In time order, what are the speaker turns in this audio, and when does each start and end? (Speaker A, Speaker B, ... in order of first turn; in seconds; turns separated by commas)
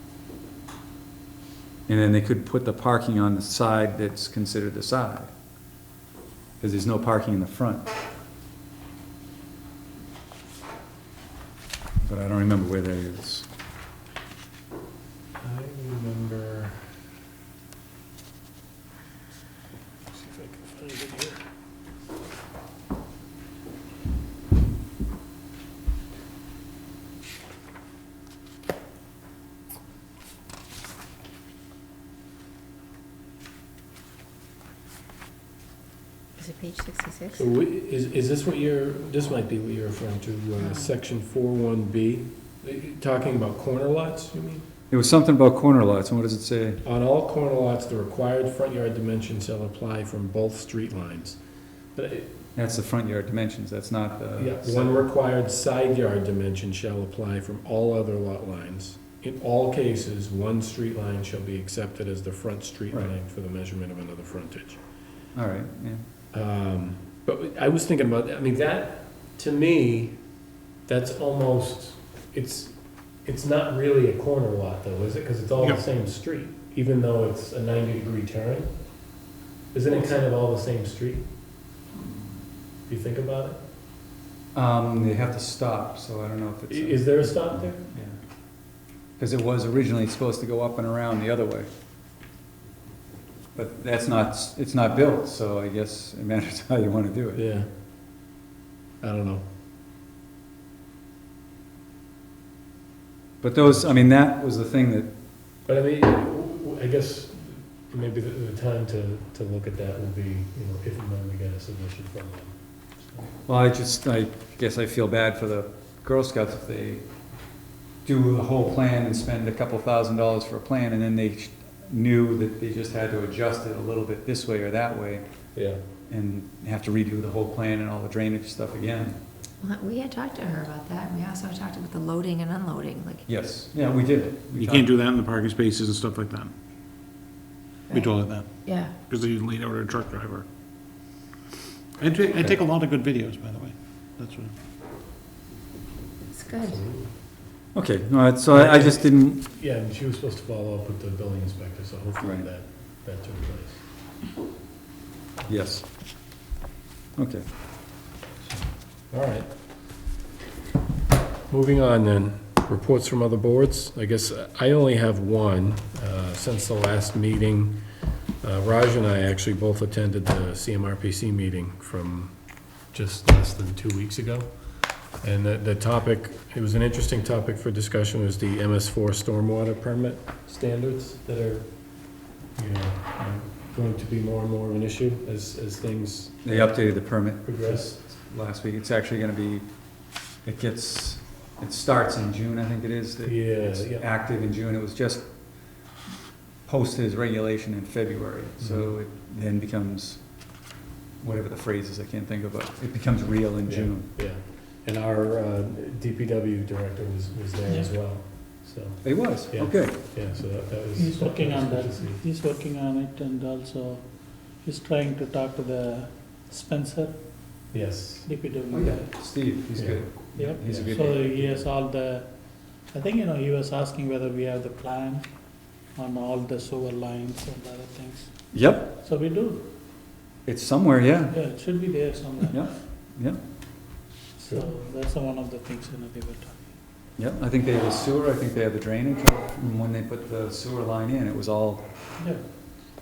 Speaker A: 1.9-5.3, Speaker A: 6.6-7.9, Speaker A: 12.0-13.5, Speaker B: 15.4-16.9, Speaker B: 20.1-21.4, Speaker C: 36.4-37.5, Speaker B: 37.4-44.6, Speaker C: 40.6-40.9, Speaker A: 44.9-46.8, Speaker B: 46.8-51.4, Speaker B: 52.0-52.4, Speaker A: 52.6-55.0, Speaker B: 54.4-64.8, Speaker A: 65.3-66.0, Speaker B: 66.3-70.2, Speaker B: 70.9-78.7, Speaker B: 79.7-81.3, Speaker B: 82.9-83.6, Speaker A: 84.5-87.1, Speaker B: 86.7-87.9, Speaker A: 87.9-88.2, Speaker A: 89.2-91.7, Speaker A: 93.5-97.4, Speaker B: 97.3-97.7, Speaker B: 99.0-99.4, Speaker A: 103.4-105.1, Speaker B: 103.6-104.0, Speaker B: 105.7-112.6, Speaker A: 113.5-117.0, Speaker A: 118.0-125.2, Speaker A: 126.1-129.2, Speaker C: 129.6-133.2, Speaker A: 133.3-134.9, Speaker D: 134.6-136.5, Speaker D: 137.9-138.5, Speaker C: 138.6-138.9, Speaker D: 139.1-140.5, Speaker D: 142.0-144.5, Speaker A: 142.3-142.6, Speaker C: 146.3-146.8, Speaker B: 146.7-147.1, Speaker A: 147.7-149.4, Speaker B: 148.5-153.8, Speaker A: 152.2-152.5, Speaker A: 155.5-155.9, Speaker A: 157.2-157.4, Speaker B: 159.1-159.5, Speaker B: 161.5-167.8, Speaker B: 168.4-174.6, Speaker B: 175.2-181.7, Speaker B: 182.6-188.0, Speaker A: 186.4-189.7, Speaker A: 190.4-195.3, Speaker B: 193.2-194.1, Speaker A: 196.7-200.3, Speaker B: 198.6-198.9, Speaker A: 201.2-204.1, Speaker B: 203.7-212.2, Speaker A: 209.0-210.0, Speaker E: 211.0-217.2, Speaker B: 217.7-218.3, Speaker E: 218.3-219.2, Speaker A: 218.7-221.6, Speaker B: 219.8-220.9, Speaker E: 220.3-222.3, Speaker E: 222.9-225.3, Speaker E: 225.9-229.7, Speaker A: 228.5-228.9, Speaker A: 230.5-231.4, Speaker E: 231.3-232.6, Speaker A: 232.5-233.4, Speaker E: 234.4-236.7, Speaker A: 237.2-241.8